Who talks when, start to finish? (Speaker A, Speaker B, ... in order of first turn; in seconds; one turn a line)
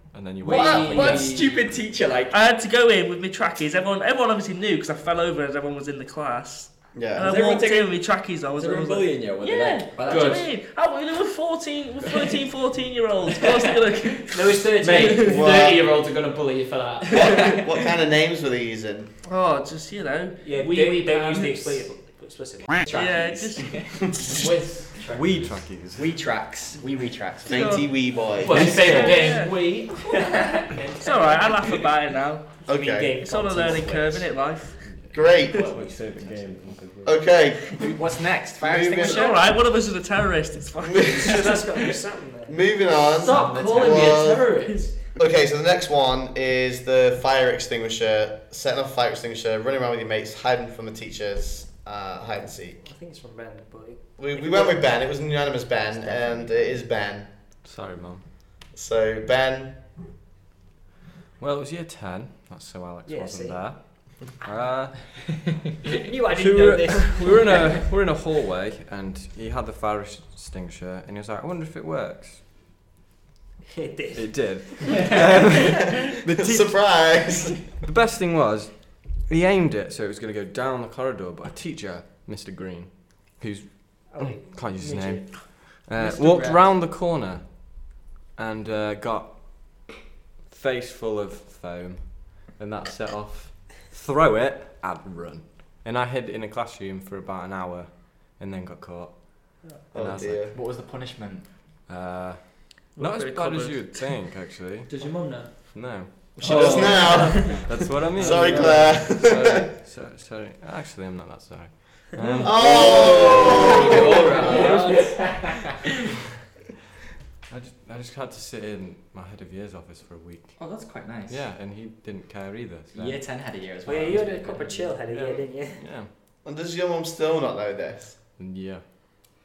Speaker A: 0.1-1.4
Speaker B: 0.4-1.5
Speaker C: 0.4-2.4
Speaker D: 2.3-15.4
Speaker E: 6.9-7.3
Speaker C: 7.2-8.0
Speaker C: 8.5-10.5
Speaker B: 10.1-10.4
Speaker C: 13.3-14.2
Speaker F: 14.3-15.4
Speaker B: 14.8-17.3
Speaker E: 15.2-15.8
Speaker E: 17.1-19.1
Speaker D: 19.2-21.8
Speaker F: 20.4-23.4
Speaker D: 22.9-23.8
Speaker C: 23.5-23.9
Speaker B: 24.2-25.6
Speaker A: 25.1-26.1
Speaker C: 26.0-27.9
Speaker E: 27.4-28.8
Speaker D: 27.5-29.6
Speaker B: 28.4-31.5
Speaker A: 28.5-29.1
Speaker D: 31.0-34.9
Speaker E: 32.7-33.2
Speaker F: 32.7-34.3
Speaker A: 34.8-37.3
Speaker E: 35.1-35.7
Speaker C: 35.5-36.5
Speaker E: 37.0-37.9
Speaker C: 37.7-39.5
Speaker E: 38.6-39.3
Speaker D: 39.0-41.6
Speaker E: 40.8-41.4
Speaker F: 41.2-42.6
Speaker E: 42.5-44.5
Speaker B: 43.1-44.9
Speaker C: 43.3-44.1
Speaker E: 45.1-52.8
Speaker F: 52.8-54.8
Speaker E: 54.2-57.3
Speaker A: 57.6-58.2
Speaker E: 58.7-59.8
Speaker A: 61.4-65.1
Speaker F: 63.0-63.8
Speaker F: 65.9-67.8
Speaker A: 66.3-72.4
Speaker F: 73.7-75.1
Speaker A: 74.1-77.1
Speaker C: 74.9-76.0
Speaker E: 76.3-77.6
Speaker A: 77.8-89.9
Speaker F: 84.1-85.5
Speaker B: 86.0-86.6
Speaker A: 90.5-100.5
Speaker E: 99.9-100.5
Speaker C: 100.5-101.5
Speaker A: 101.9-105.0
Speaker D: 102.9-104.1
Speaker B: 104.9-109.6
Speaker A: 105.7-113.0
Speaker E: 106.4-109.7
Speaker B: 112.2-115.2
Speaker E: 112.4-114.5
Speaker C: 113.2-113.6
Speaker C: 114.3-115.6
Speaker F: 114.4-115.2
Speaker A: 117.5-120.7
Speaker C: 120.6-121.4
Speaker A: 121.3-123.2
Speaker C: 122.9-124.9
Speaker F: 123.8-125.8
Speaker A: 125.1-126.1
Speaker E: 126.4-128.2
Speaker A: 128.4-128.8